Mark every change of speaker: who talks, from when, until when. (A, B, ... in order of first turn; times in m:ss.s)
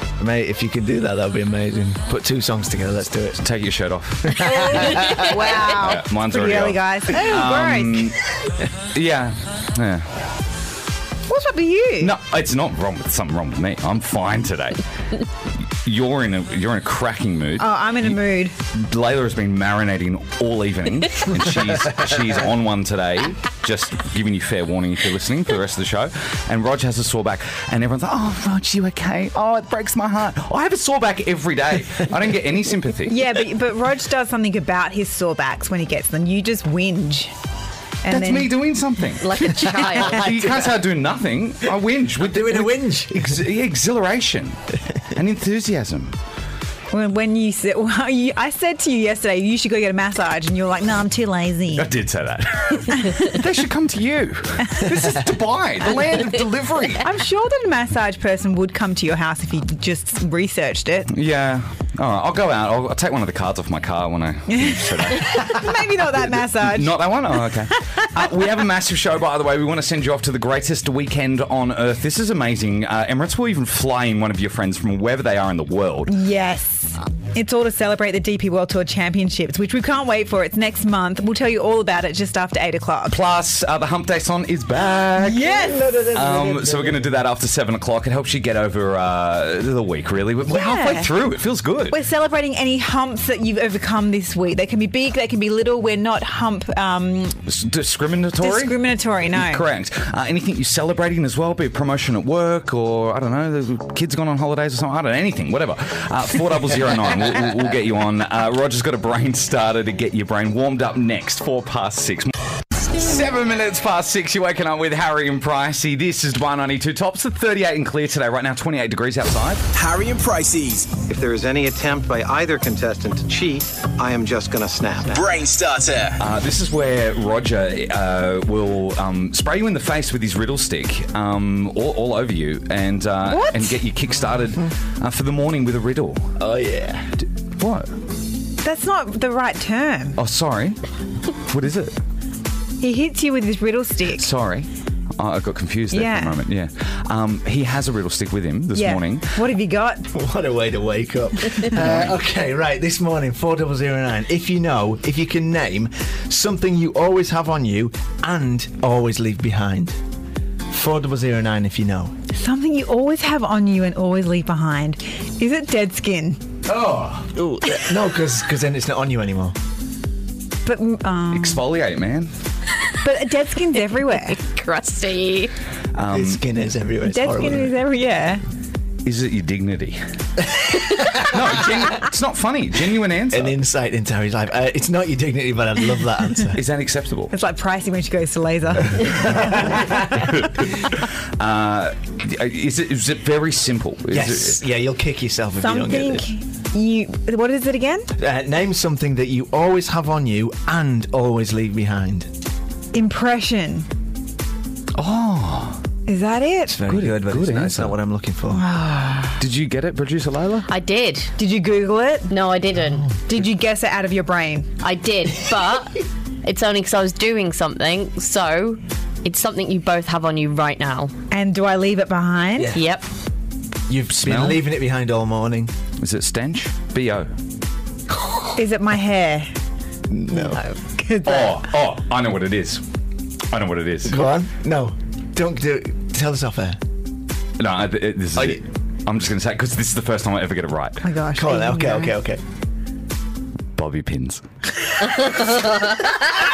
0:00.2-0:03.4 A
0:03.4-0:08.2 B
0:04.3-0:05.2 A
0:04.5-0:08.1 C
0:08.9-0:10.1 B
0:11.3-0:12.1 C
0:12.0-0:14.8 B
0:15.8-0:18.2 B
0:17.6-0:18.5 C
0:18.7-0:33.3 B
0:33.1-0:37.3 C
0:38.0-0:38.6 C
0:38.1-0:44.6 B
0:39.2-0:40.2 D
0:42.2-0:43.4 A
0:45.1-0:46.1 B
0:46.9-0:51.9 C
0:51.7-0:57.1 B
0:57.0-1:01.1 C
1:01.1-1:16.1 B
1:04.5-1:08.3 C
1:16.1-1:23.2 C
1:23.1-1:32.0 B
1:25.2-1:26.0 C
1:25.6-1:27.1 A
1:30.4-1:31.1 C
1:31.9-1:37.4 C
1:37.4-1:38.8 B
1:38.4-1:39.7 C
1:39.3-1:52.3 B
1:52.9-1:59.6 B
1:59.7-2:01.0 E
2:01.1-2:05.3 F
2:05.1-2:06.2 E
2:06.2-2:16.3 B
2:13.3-2:13.8 C
2:16.4-2:17.1 A
2:17.6-2:17.9 B
2:18.6-2:20.2 C
2:20.2-2:20.8 B
2:21.4-2:22.0 B
2:22.8-2:24.3 C
2:24.1-2:29.4 B
2:25.9-2:26.4 C
2:28.7-2:30.1 C
2:30.1-2:40.0 A
2:31.7-2:32.1 B
2:40.7-2:42.1 A
2:42.3-2:46.4 C
2:46.7-2:47.2 B
2:47.3-2:49.6 A
2:50.6-2:51.7 C
2:51.3-2:52.3 B
2:53.0-2:54.4 C
2:54.1-2:55.5 D
2:55.9-2:56.4 B
2:56.1-2:57.7 A
2:57.0-2:58.4 C
2:59.0-3:00.0 B
3:00.7-3:01.5 A
3:01.1-3:03.5 B
3:03.3-3:06.6 A
3:06.5-3:07.3 B
3:07.3-3:10.3 C
3:09.4-3:10.2 A
3:10.4-3:14.6 B
3:14.1-3:16.3 A
3:15.6-3:18.1 C
3:18.2-3:22.3 A
3:22.9-3:23.9 C
3:24.9-3:25.8 B
3:26.1-3:26.8 C
3:26.7-3:28.6 A
3:26.8-3:27.9 B
3:28.5-3:29.4 C
3:29.4-3:30.7 B
3:30.7-3:31.3 D
3:31.4-3:32.3 C
3:32.3-3:33.1 D
3:33.2-3:34.7 C
3:34.8-3:41.1 D
3:41.3-3:42.7 C
3:42.6-3:42.8 A
3:42.7-3:43.0 D
3:43.9-3:45.7 A
3:44.2-3:44.6 B
3:46.0-3:47.3 B
3:48.5-3:49.5 C
3:50.1-3:50.6 A
3:50.8-3:51.6 C
3:51.2-3:52.8 B
3:53.5-3:54.2 B
3:54.0-3:56.8 A
3:57.6-4:01.0 B
3:58.4-3:58.6 A
4:01.0-4:02.2 C
4:01.3-4:02.4 A
4:03.8-4:04.4 B